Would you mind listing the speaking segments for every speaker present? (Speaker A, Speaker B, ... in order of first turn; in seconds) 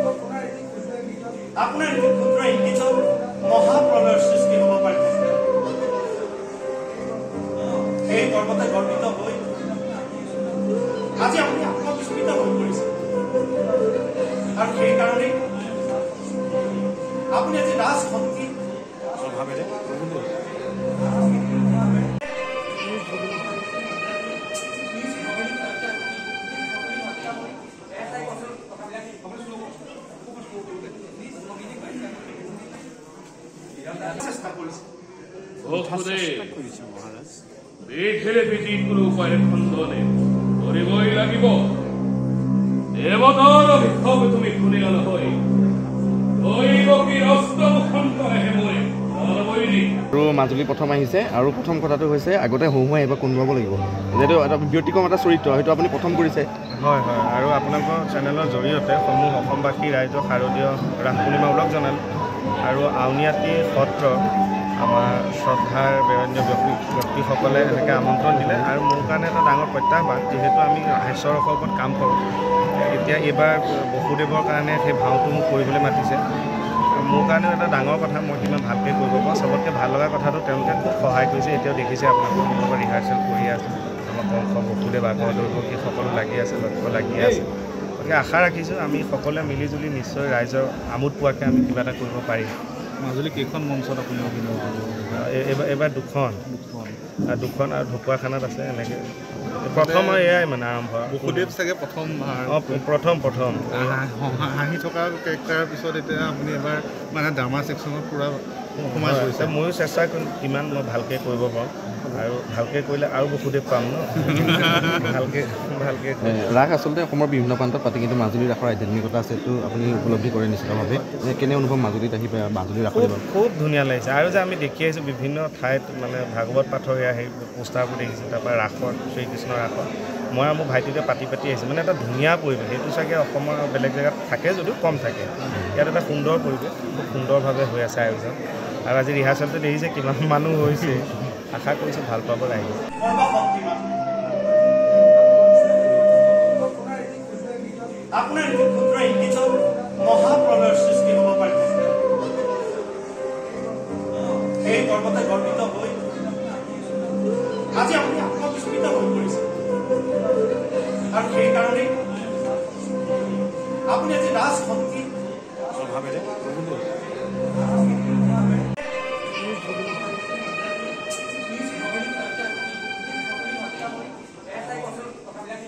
Speaker A: 1.6-5.3, 8.0-9.4, 11.2-12.9, 14.6-15.4, 17.3-18.5, 34.0-34.8, 142.9-143.9, 148.1-151.9, 154.5-156.0, 157.7-159.5, 161.1-161.9, 163.9-165.1
Speaker B: 35.6-37.2, 37.8-41.7, 43.0-45.4, 46.4-50.0
Speaker C: 50.1-56.5, 116.2-123.2
Speaker D: 56.8-62.0, 62.7-64.2, 64.8-72.2, 72.8-76.2, 76.9-92.5, 95.2-96.4, 97.3-99.0, 99.6-101.5, 102.5-104.0, 108.9-116.4, 122.9-142.8
Speaker E: 87.2-87.4, 93.0-95.2, 96.5-97.0, 99.8-100.3, 101.2-102.7, 103.8-109.5, 114.4-115.0